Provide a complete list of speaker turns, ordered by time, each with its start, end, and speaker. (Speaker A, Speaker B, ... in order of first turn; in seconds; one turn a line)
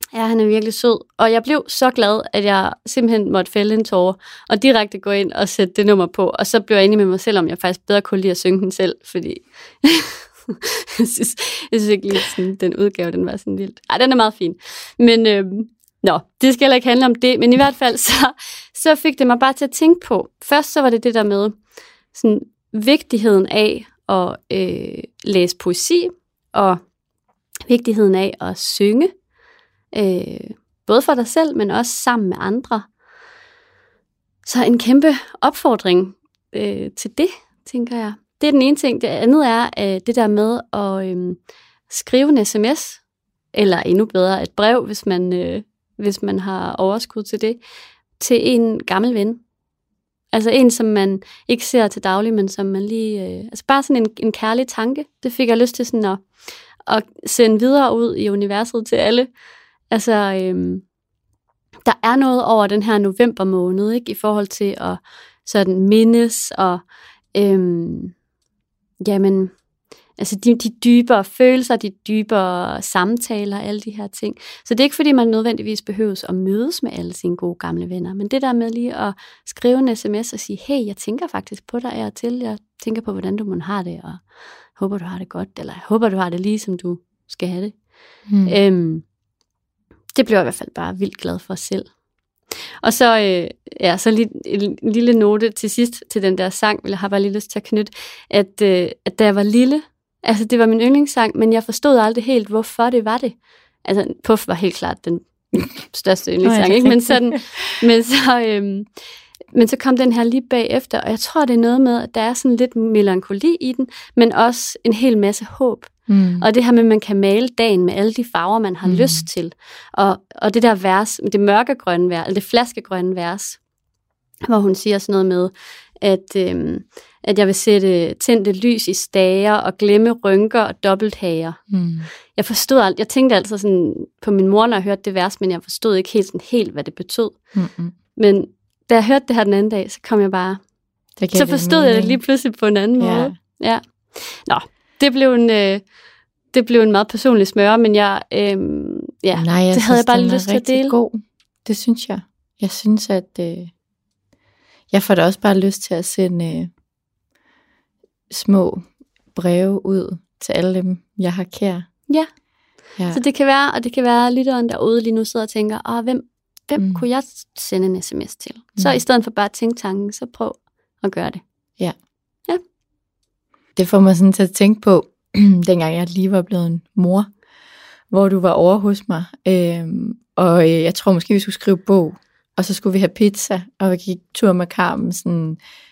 Speaker A: 0.1-21.6
Speaker A: 22.1-26.8
Speaker A: 27.7-29.1
Speaker A: 29.9-32.9
Speaker A: 34.5-47.6
Speaker A: 48.2-49.4
Speaker A: 50.3-56.3
Speaker A: 56.9-59.3
Speaker A: 59.9-60.9
Speaker A: 61.9-68.2
Speaker A: 69.0-69.6
Speaker A: 70.2-87.9
Speaker B: 88.3-88.6
Speaker A: 88.5-89.0
Speaker A: 90.1-91.9
Speaker A: 92.8-108.9
Speaker B: 106.4-107.8
Speaker A: 109.5-123.6
Speaker B: 116.1-116.5
Speaker B: 118.8-119.3
Speaker A: 124.5-131.6
Speaker B: 131.7-132.1
Speaker A: 132.2-137.5
Speaker B: 137.5-137.9
Speaker A: 138.2-140.6
Speaker B: 141.2-142.2
Speaker A: 141.3-145.9
Speaker B: 143.0-143.3
Speaker A: 146.5-151.0
Speaker B: 149.3-153.7
Speaker B: 154.9-156.7
Speaker B: 158.3-161.9
Speaker B: 163.0-163.2
Speaker A: 163.1-171.4
Speaker B: 166.8-167.0
Speaker B: 173.8-177.3
Speaker B: 178.1-185.6